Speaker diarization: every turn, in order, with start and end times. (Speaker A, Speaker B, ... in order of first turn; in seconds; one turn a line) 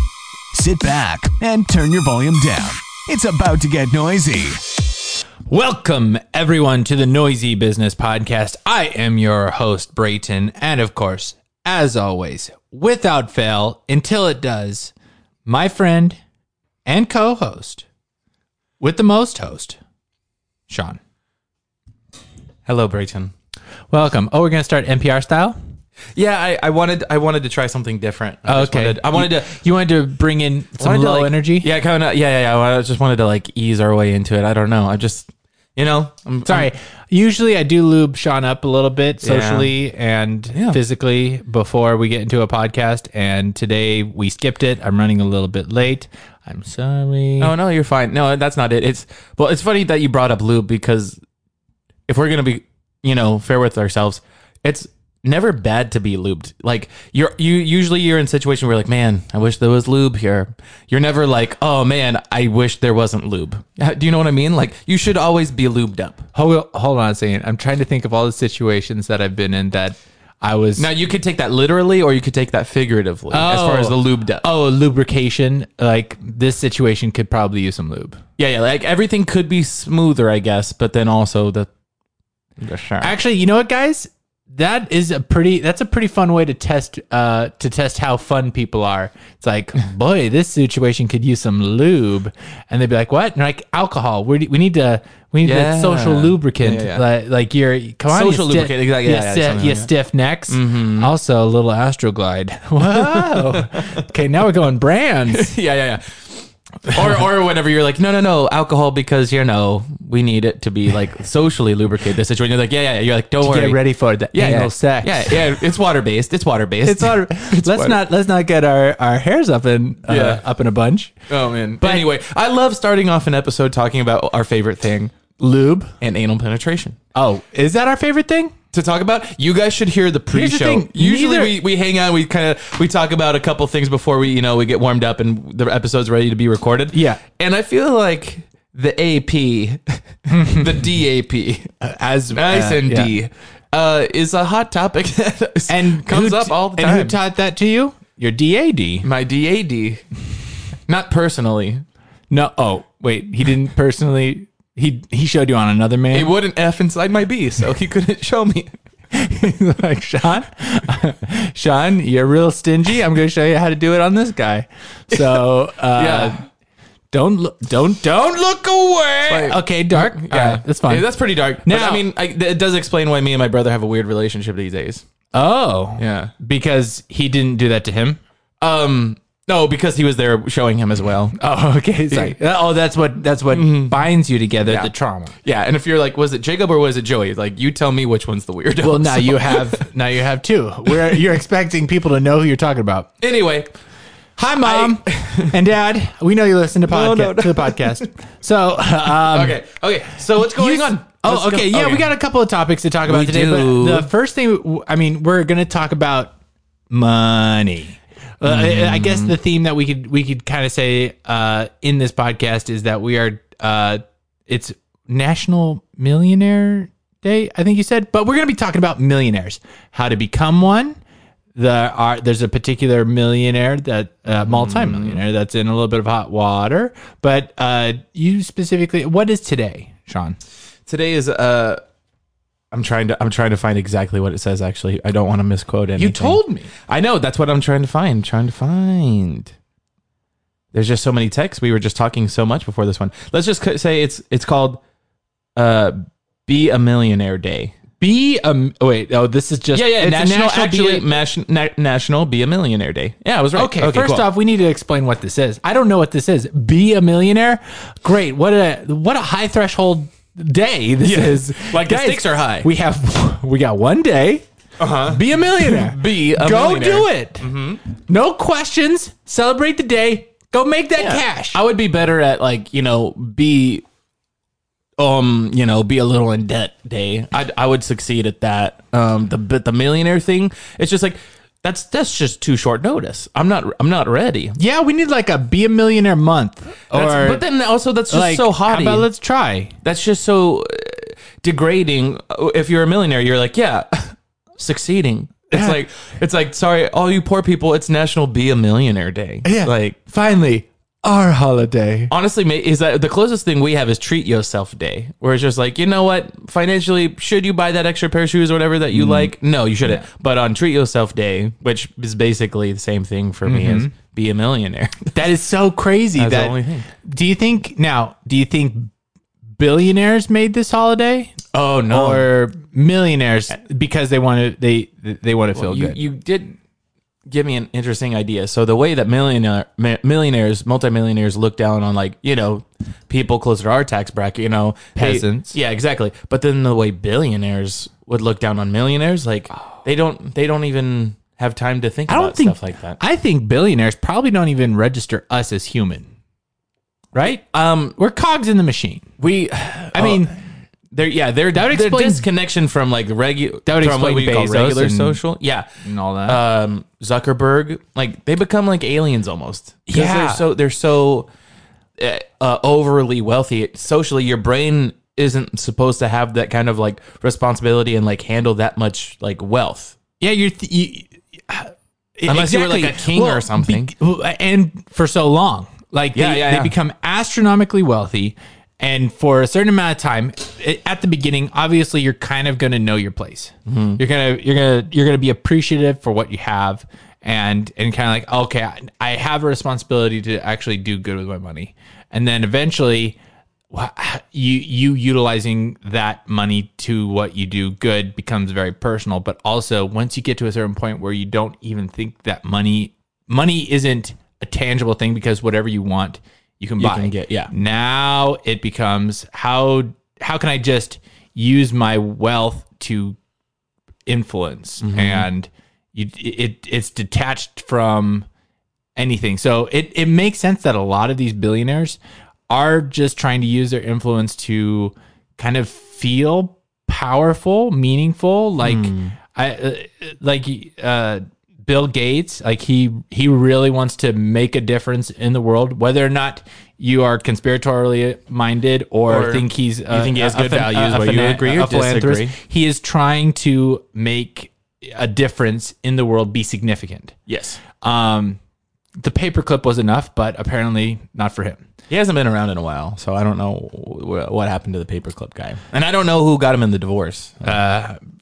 Speaker A: 0.5-4.7
Speaker B: 5.5-14.9
Speaker B: 15.4-16.2
Speaker B: 16.9-17.9
Speaker B: 18.8-19.8
Speaker B: 20.7-21.0
Speaker C: 22.6-23.3
Speaker B: 23.9-25.6
Speaker C: 26.1-29.5
Speaker B: 28.4-31.7
Speaker C: 30.8-36.7
Speaker B: 36.5-47.5
Speaker C: 39.2-39.7
Speaker C: 47.4-51.2
Speaker C: 52.1-66.2
Speaker B: 66.3-70.9
Speaker C: 70.8-74.4
Speaker B: 73.3-78.2
Speaker C: 78.4-81.7
Speaker C: 82.6-83.1
Speaker B: 83.0-105.5
Speaker C: 95.4-97.0
Speaker C: 98.1-99.9
Speaker C: 100.5-101.1
Speaker C: 102.8-104.0
Speaker C: 105.3-113.8
Speaker B: 113.4-115.4
Speaker C: 114.3-118.0
Speaker B: 116.8-121.1
Speaker C: 120.1-120.4
Speaker C: 121.3-125.1
Speaker B: 121.8-122.1
Speaker B: 125.4-125.9
Speaker C: 126.0-127.0
Speaker B: 127.1-128.5
Speaker C: 128.7-141.7
Speaker B: 130.3-131.6
Speaker B: 136.9-137.2
Speaker B: 140.3-140.7
Speaker B: 141.8-143.1
Speaker C: 142.3-147.2
Speaker B: 145.7-149.1
Speaker C: 149.0-150.0
Speaker C: 150.9-151.8
Speaker B: 152.3-156.3
Speaker C: 156.1-158.7
Speaker B: 159.1-166.4
Speaker C: 165.1-166.4
Speaker B: 167.1-171.1
Speaker C: 169.3-175.0
Speaker B: 171.6-172.0
Speaker B: 175.3-178.2
Speaker C: 176.0-176.3
Speaker C: 178.6-181.3
Speaker B: 181.3-185.3
Speaker C: 182.1-182.3
Speaker C: 183.5-184.1
Speaker C: 184.6-184.9
Speaker C: 185.4-189.9
Speaker B: 188.8-193.1
Speaker C: 193.2-193.7
Speaker B: 194.4-199.6
Speaker C: 194.6-195.5
Speaker C: 196.8-198.0
Speaker C: 199.1-202.1
Speaker B: 200.4-206.3
Speaker C: 203.1-204.1
Speaker B: 206.9-221.0
Speaker C: 208.4-209.3
Speaker B: 221.5-230.4
Speaker C: 224.4-225.2
Speaker C: 230.9-231.8
Speaker C: 232.7-239.5
Speaker B: 236.0-236.7
Speaker C: 240.7-244.8
Speaker C: 245.6-247.8
Speaker B: 248.0-251.1
Speaker C: 249.7-254.2
Speaker B: 253.6-264.4
Speaker C: 261.0-262.7
Speaker C: 264.8-267.8
Speaker B: 265.0-271.6
Speaker C: 271.0-273.8
Speaker C: 275.0-284.6
Speaker B: 284.6-287.4
Speaker C: 286.9-289.1
Speaker B: 288.1-289.7
Speaker C: 289.8-300.0
Speaker B: 295.5-295.8
Speaker B: 299.4-302.1
Speaker C: 302.1-315.0
Speaker B: 308.9-309.3
Speaker B: 313.4-313.9
Speaker B: 315.1-318.9
Speaker C: 316.1-316.9
Speaker B: 319.6-321.4
Speaker C: 321.5-322.3
Speaker B: 321.9-326.0
Speaker C: 325.6-326.6
Speaker C: 327.2-343.0
Speaker B: 334.9-335.5
Speaker B: 342.1-346.1
Speaker B: 347.1-347.4
Speaker C: 347.2-347.9
Speaker B: 347.9-349.1
Speaker C: 349.2-350.3
Speaker B: 349.9-350.4
Speaker C: 350.9-355.7
Speaker B: 351.5-352.2
Speaker B: 353.6-355.2
Speaker B: 355.8-356.4
Speaker C: 356.3-361.3
Speaker B: 359.9-360.4
Speaker C: 362.0-369.9
Speaker B: 370.2-393.1
Speaker C: 372.3-373.9
Speaker C: 376.1-376.7
Speaker C: 383.7-384.0
Speaker B: 393.7-413.2
Speaker C: 406.8-407.5
Speaker B: 414.1-418.2
Speaker C: 414.8-415.2
Speaker B: 418.9-422.0
Speaker B: 422.5-447.2
Speaker C: 428.6-429.1
Speaker C: 439.1-442.4
Speaker C: 447.3-447.6
Speaker B: 447.8-448.4
Speaker B: 449.0-451.6
Speaker C: 451.9-457.5
Speaker B: 457.4-458.0